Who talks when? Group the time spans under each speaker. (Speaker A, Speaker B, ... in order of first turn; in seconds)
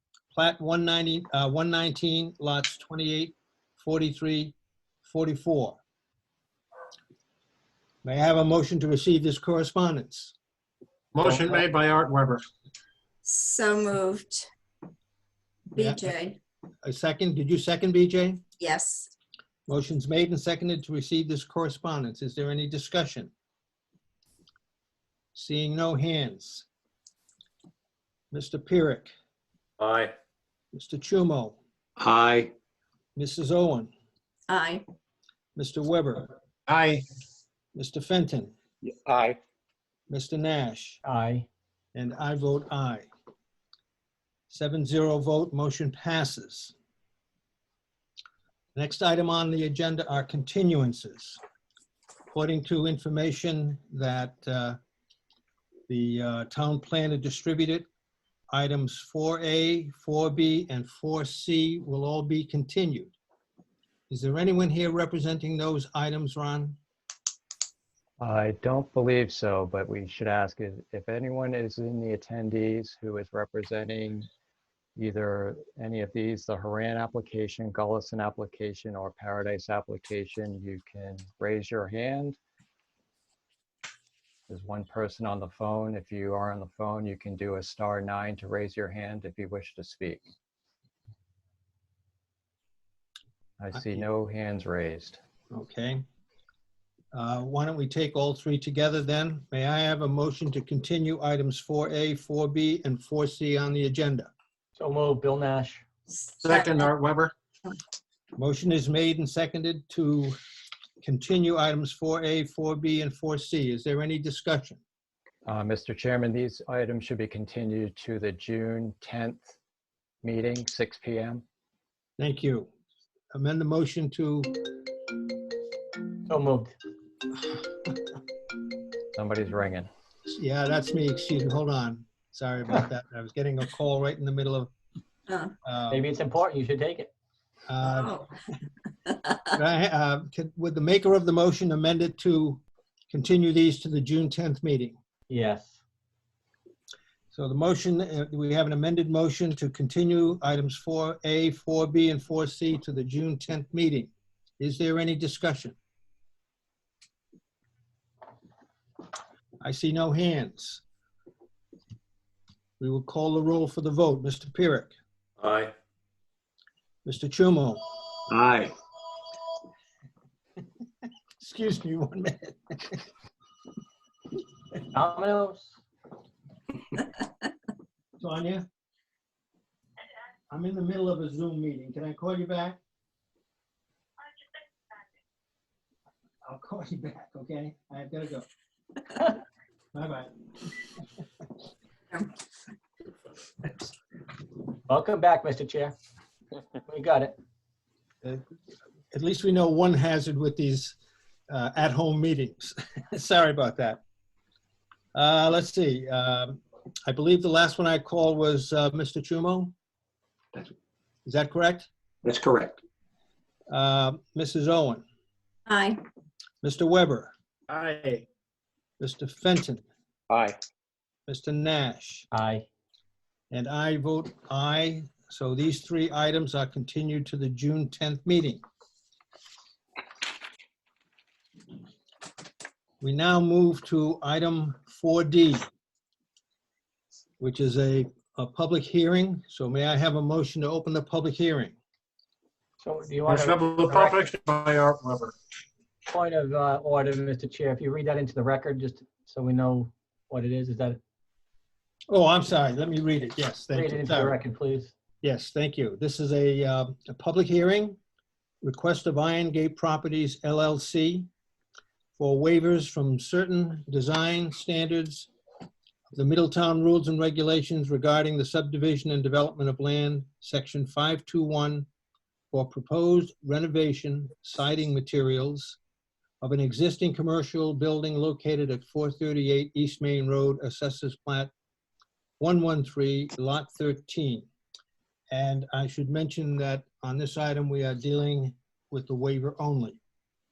Speaker A: 0.3-5.8, 8.0-10.3, 11.2-11.7, 15.8-16.1, 16.8-18.4, 19.7-23.3, 25.3-26.7, 28.3-29.1, 30.7-31.6, 33.2-33.9, 35.6-36.3, 37.8-38.5, 40.1-41.0, 42.0-43.1, 44.5-46.7, 48.8-51.4, 52.3-54.8, 55.9-57.9, 58.5-63.1, 64.1-66.8, 93.7-94.0, 95.5-96.0, 97.1-104.3, 108.4-110.4, 111.0-114.8, 122.2-122.7, 123.3-124.8, 130.3-134.7, 135.6-136.1, 137.7-138.1, 139.5-145.0, 147.3-155.8, 159.6-160.8, 162.8-164.9, 167.1-167.8, 171.4-173.0, 178.2-178.7, 180.5-182.8, 186.4-188.5, 189.9-190.3, 199.1-201.0, 201.5-204.0, 205.1-209.7, 211.3-211.9, 213.7-215.0, 216.6-217.3, 219.0-219.8, 221.3-222.3, 223.5-228.6, 233.0-235.7, 237.4-241.8, 252.1-254.4, 255.2-258.0, 258.6-261.3, 262.2-265.3, 266.1-271.9, 272.5-275.8, 276.4-281.5, 282.4-284.5, 285.3-290.0
Speaker B: 11.2-12.4, 36.7-37.0, 106.4-107.3, 217.7-218.2, 243.3-245.3
Speaker C: 13.2-14.5, 15.7-16.4, 18.6-19.1, 34.5-34.8, 106.2-106.9, 135.3-135.5, 137.8-138.3, 139.1-139.5, 215.7-216.0
Speaker D: 29.8-30.1, 32.0-32.5, 38.8-39.4, 165.4-165.7, 168.3-168.7, 212.2-212.8, 220.3-220.6
Speaker E: 41.0-41.5, 104.8-105.8, 126.3-126.8, 135.9-137.1, 145.3-145.8, 174.9-175.8, 194.9-195.9, 196.9-197.4, 222.3-222.7, 242.8-244.3, 246.1-251.0, 253.7-254.9
Speaker F: 68.2-74.3, 75.0-82.4, 84.5-90.2, 93.6-95.2, 115.5-119.6, 120.2-121.4, 129.2-129.9